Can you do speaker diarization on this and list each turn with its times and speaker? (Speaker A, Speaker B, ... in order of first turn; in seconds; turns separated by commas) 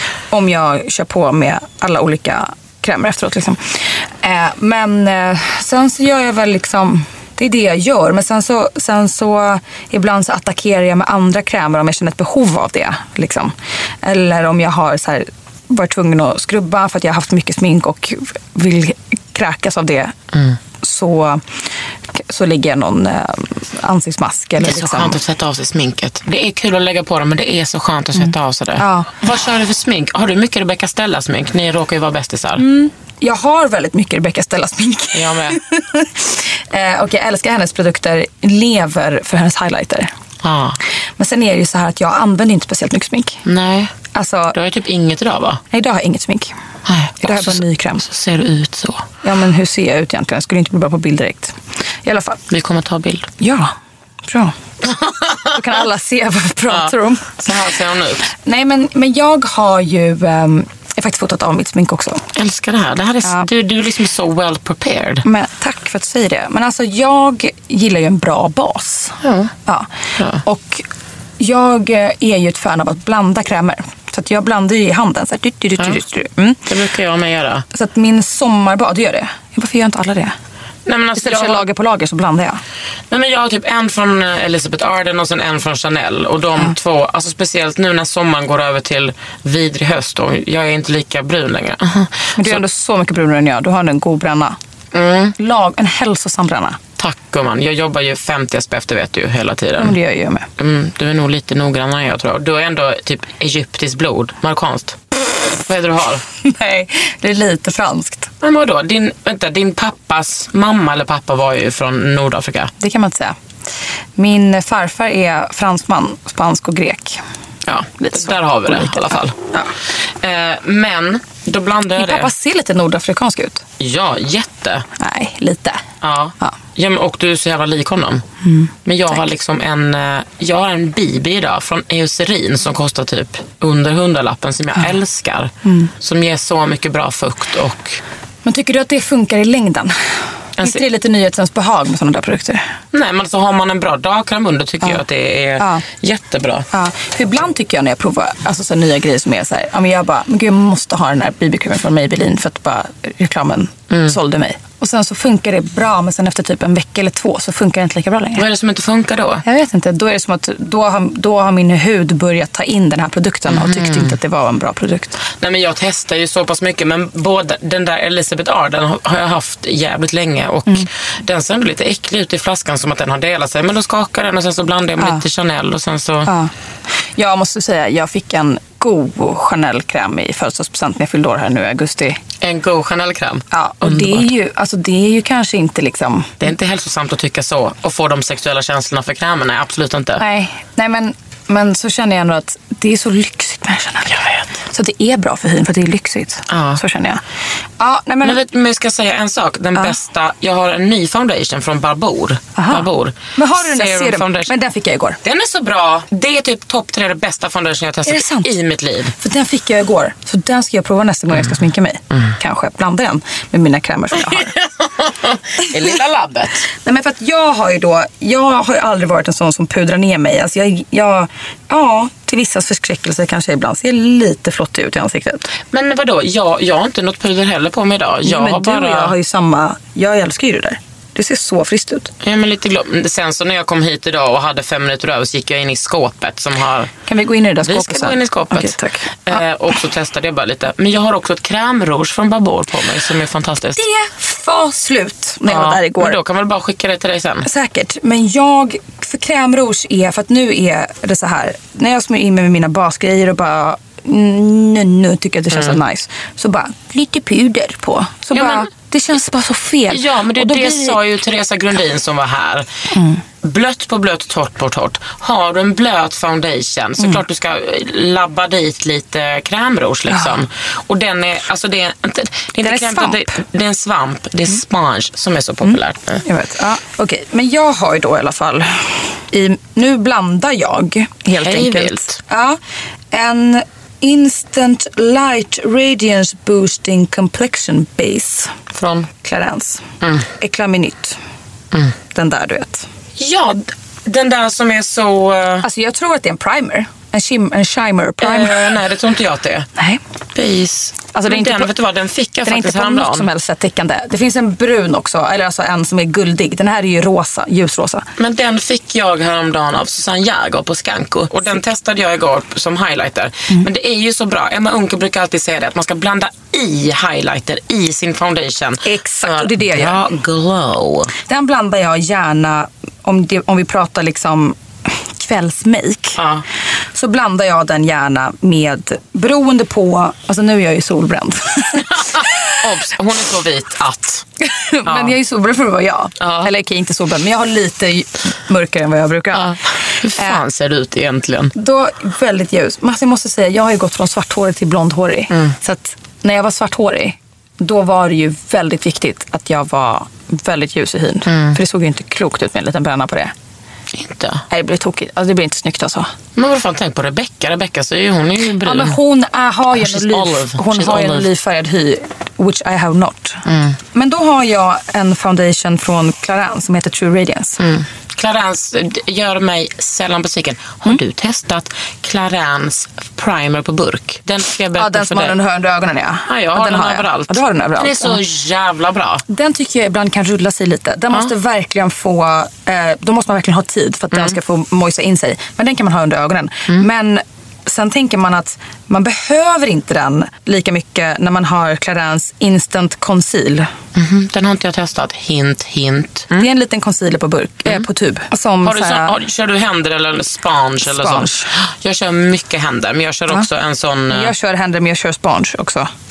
Speaker A: 0.3-20.1, Speaker B: 20.3-20.6, Speaker A: 20.8-21.5, Speaker A: 22.1-25.2, Speaker B: 24.6-32.6, Speaker A: 28.8-29.1, Speaker A: 32.6-40.1, Speaker B: 35.1-35.6, Speaker B: 40.4-40.8, Speaker A: 41.2-43.4, Speaker B: 43.5-43.9, Speaker A: 44.1-44.5, Speaker B: 44.5-45.6, Speaker A: 45.7-46.5, Speaker B: 46.9-49.1, Speaker A: 47.2-48.0, Speaker A: 49.2-52.4, Speaker B: 52.5-53.3, Speaker A: 53.4-53.7, Speaker A: 54.2-54.5, Speaker B: 54.8-55.6, Speaker A: 55.5-57.5, Speaker B: 56.7-58.3, Speaker A: 58.3-62.2, Speaker B: 62.3-65.2, Speaker A: 65.2-69.9, Speaker B: 69.2-69.5, Speaker B: 70.2-70.4, Speaker A: 70.4-70.8, Speaker A: 71.4-76.7, Speaker B: 76.7-77.6, Speaker A: 77.7-80.3, Speaker B: 80.8-81.6, Speaker A: 81.2-82.6, Speaker B: 83.1-92.6, Speaker A: 92.3-94.6, Speaker B: 94.9-95.3, Speaker A: 95.4-96.8, Speaker B: 97.0-100.0, Speaker A: 99.8-100.5, Speaker B: 100.6-106.2, Speaker A: 106.4-108.3, Speaker B: 108.4-112.7, Speaker A: 112.8-113.3, Speaker A: 114.2-117.2, Speaker B: 117.7-119.3, Speaker A: 118.0-119.7, Speaker B: 120.2-122.3, Speaker A: 122.0-123.6, Speaker B: 123.8-124.8, Speaker A: 125.0-125.8, Speaker B: 126.0-128.2, Speaker A: 128.4-129.2, Speaker B: 128.8-135.5, Speaker A: 135.6-135.9, Speaker B: 136.0-138.0, Speaker A: 138.4-139.9, Speaker B: 140.6-140.8, Speaker A: 140.6-142.7, Speaker B: 142.9-146.7, Speaker A: 145.6-145.8, Speaker A: 146.7-158.4, Speaker B: 153.9-154.2, Speaker B: 158.4-159.4, Speaker A: 159.4-165.2, Speaker B: 163.5-164.2, Speaker B: 165.4-176.3, Speaker A: 176.2-182.2, Speaker B: 182.4-184.3, Speaker A: 183.5-186.4, Speaker B: 186.4-190.2, Speaker A: 190.2-197.2, Speaker B: 194.1-194.4, Speaker B: 196.5-196.8, Speaker A: 197.8-198.4, Speaker B: 198.2-204.5, Speaker A: 202.6-205.2, Speaker B: 205.2-209.1, Speaker A: 208.1-208.5, Speaker A: 209.2-214.5, Speaker B: 214.2-216.7, Speaker A: 216.7-225.5, Speaker B: 225.7-229.1, Speaker A: 228.2-232.1, Speaker B: 232.2-236.9, Speaker A: 237.1-239.4, Speaker B: 237.6-243.8, Speaker A: 243.8-246.2, Speaker B: 245.5-247.5, Speaker A: 247.4-261.0, Speaker B: 255.5-255.8, Speaker B: 258.3-258.7, Speaker B: 259.9-262.6, Speaker A: 262.9-263.2, Speaker B: 263.4-276.2, Speaker A: 270.1-270.4, Speaker A: 272.6-273.3, Speaker A: 275.6-282.6, Speaker B: 281.4-282.2, Speaker A: 283.1-288.5, Speaker B: 288.7-289.1, Speaker A: 289.2-291.2, Speaker A: 292.1-292.9, Speaker B: 293.2-295.6, Speaker A: 295.6-298.8, Speaker B: 298.2-299.7, Speaker A: 299.8-300.0, Speaker B: 300.3-303.3, Speaker A: 301.1-301.7, Speaker A: 302.4-308.1, Speaker B: 308.2-321.1, Speaker A: 318.8-320.0, Speaker A: 321.2-326.2, Speaker B: 326.2-326.4, Speaker A: 326.9-332.5, Speaker B: 331.9-334.2, Speaker A: 334.4-339.6, Speaker B: 334.8-335.1, Speaker B: 336.2-336.5, Speaker B: 339.3-341.5, Speaker A: 340.1-340.4, Speaker A: 341.5-353.3, Speaker B: 345.3-345.6, Speaker B: 351.3-351.6, Speaker B: 353.9-354.4, Speaker A: 354.5-356.1, Speaker B: 356.4-359.0, Speaker A: 358.6-367.6, Speaker B: 359.8-361.3, Speaker B: 363.4-363.8, Speaker B: 367.6-375.4, Speaker A: 374.8-378.2, Speaker B: 376.3-379.2, Speaker A: 379.3-393.7, Speaker B: 393.9-396.5, Speaker A: 396.4-399.1, Speaker B: 398.6-404.3, Speaker A: 400.8-401.5, Speaker A: 404.1-405.9